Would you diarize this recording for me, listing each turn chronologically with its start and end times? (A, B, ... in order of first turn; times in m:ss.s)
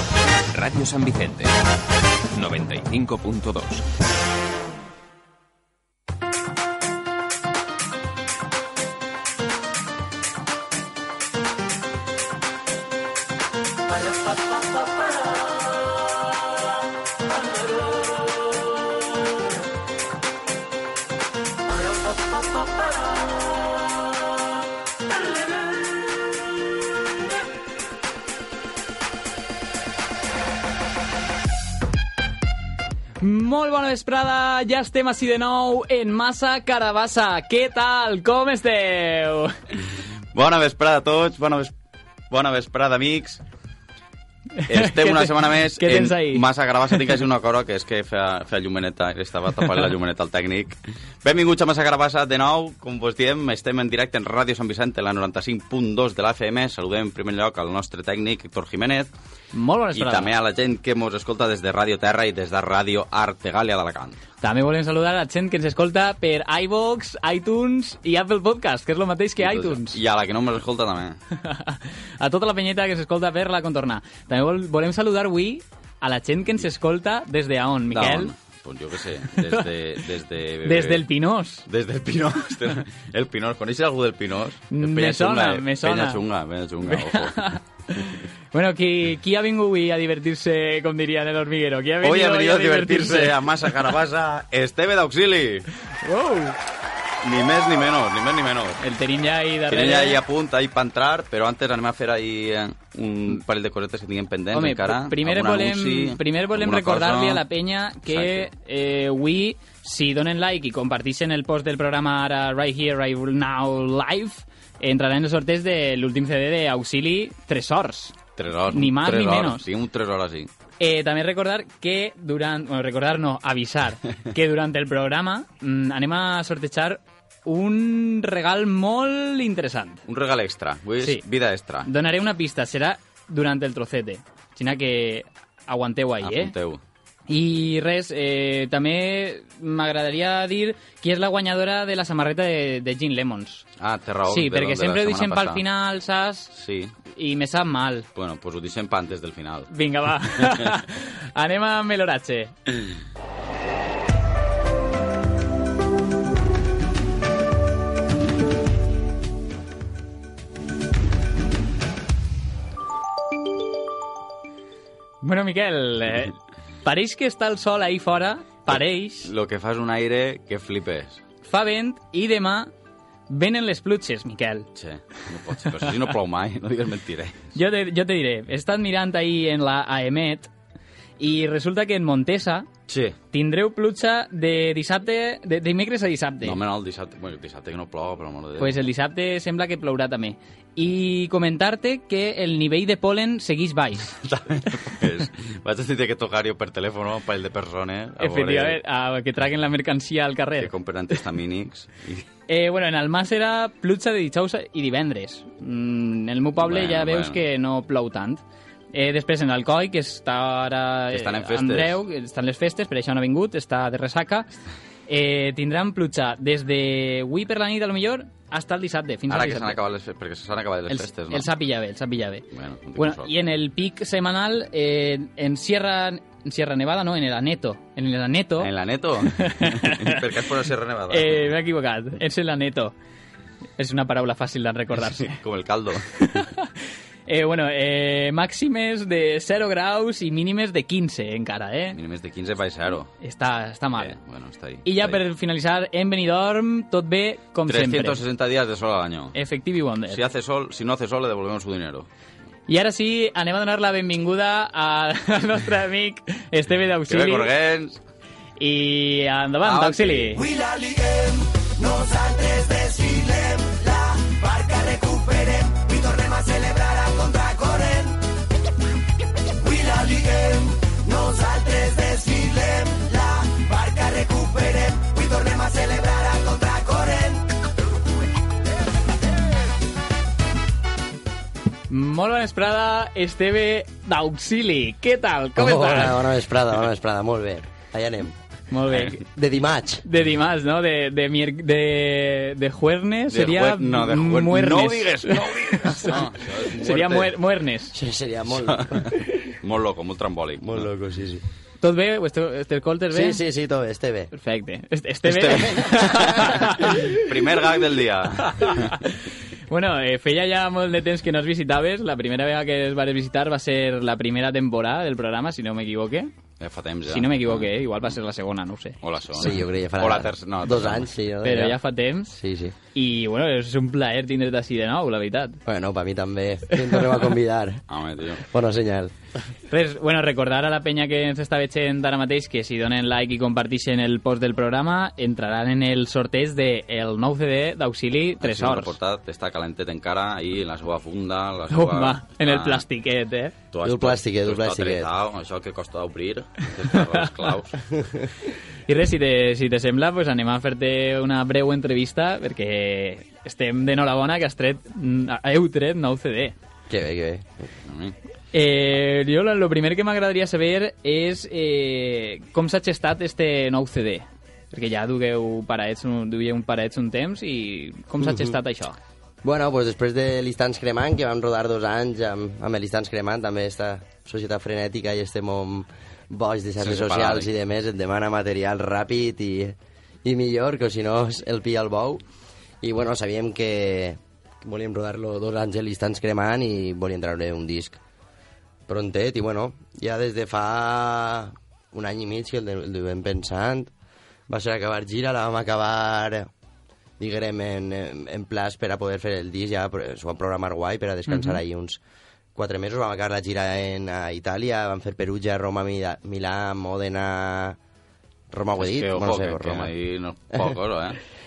0:00.5-0:01.5 A
0:02.4-0:03.8 A
0:33.2-0:39.5 B
0:40.3-0:41.7 C
0:42.3-0:43.4 C
0:44.6-0:46.4 B
0:44.7-0:59.1 C
0:59.5-1:00.3 B
0:59.9-1:04.2 C
1:04.4-1:10.0 B
1:09.4-1:11.2 C
1:11.3-1:18.3 B
1:17.9-1:21.1 C
1:20.6-1:21.6 B
1:21.7-1:27.5 C
1:24.7-1:26.2 B
1:26.8-1:33.4 B
1:32.0-1:35.7 C
1:36.0-1:36.6 B
1:37.2-1:38.8 C
1:38.8-1:40.2 B
1:39.7-1:47.4 C
1:44.5-1:58.2 B
1:48.1-1:48.5 C
1:58.4-2:00.5 C
1:58.7-1:59.7 B
2:00.8-2:10.0 B
2:10.1-2:11.9 C
2:11.8-2:16.5 B
2:16.2-2:16.8 C
2:17.3-2:23.6 B
2:23.8-2:25.6 C
2:24.3-2:26.5 B
2:26.5-2:26.9 C
2:27.1-2:28.1 B
2:28.2-2:29.7 C
2:29.7-2:32.5 B
2:30.4-2:30.7 C
2:45.2-2:49.3 B
2:48.7-2:51.2 C
2:51.4-2:52.7 B
2:53.3-2:54.7 B
2:54.8-2:57.5 C
2:57.6-3:00.5 B
3:01.2-3:02.7 B
3:02.9-3:03.2 C
3:03.3-3:06.6 B
3:06.4-3:08.8 C
3:08.6-3:14.1 B
3:14.2-3:18.8 C
3:18.2-3:20.7 B
3:20.6-3:22.2 C
3:22.5-3:28.4 B
3:26.6-3:27.4 C
3:28.9-3:34.6 B
3:31.1-3:32.0 C
3:35.1-3:39.8 B
3:39.3-3:41.5 C
3:40.9-3:42.4 B
3:42.5-3:43.3 C
3:43.0-3:48.7 B
3:48.6-3:51.5 C
3:49.3-3:50.2 B
3:51.1-3:53.0 B
3:53.8-3:55.4 B
3:55.2-3:56.0 C
3:56.2-3:56.7 B
3:57.3-4:02.0 B
4:02.0-4:03.1 C
4:03.2-4:04.2 B
4:04.0-4:05.2 C
4:04.8-4:08.2 B
4:07.7-4:09.4 C
4:09.3-4:10.2 B
4:10.1-4:12.1 C
4:12.7-4:17.5 B
4:17.1-4:18.0 C
4:18.6-4:20.4 B
4:19.6-4:20.4 C
4:20.5-4:28.2 D
4:29.6-4:37.4 D
4:41.9-4:46.2 B
4:45.6-4:48.4 E
4:48.7-4:49.2 B
4:49.3-4:50.0 E
4:50.0-4:56.2 B
4:53.3-4:57.3 C
4:56.7-4:58.0 B
4:57.9-4:59.1 E
4:58.6-5:00.9 C
5:00.6-5:01.4 E
5:01.8-5:03.4 B
5:03.1-5:04.3 E
5:04.3-5:07.0 B
5:05.3-5:09.0 C
5:05.6-5:06.5 E
5:08.4-5:16.3 B
5:16.6-5:17.7 C
5:17.1-5:19.0 B
5:19.0-5:21.1 C
5:19.4-5:21.8 E
5:21.4-5:22.3 B
5:22.3-5:22.8 E
5:23.0-5:25.6 B
5:25.7-5:27.8 E
5:27.9-5:28.4 C
5:28.4-5:29.1 E
5:29.7-5:39.0 B
5:38.4-5:42.8 C
5:41.7-5:43.5 B
5:43.7-5:47.8 C
5:43.8-5:45.1 E
5:47.9-5:48.3 E
5:48.9-5:56.6 B
5:56.9-5:57.7 E
5:57.9-5:58.2 C
5:58.5-6:09.0 B
6:08.2-6:08.6 E
6:09.4-6:22.2 E
6:16.8-6:17.5 C
6:22.8-6:28.0 E
6:28.9-6:33.9 E
6:34.5-6:36.5 E
6:37.2-6:42.0 E
6:41.3-6:41.6 B
6:42.6-6:47.8 E
6:48.5-6:49.9 E
6:48.8-6:51.2 C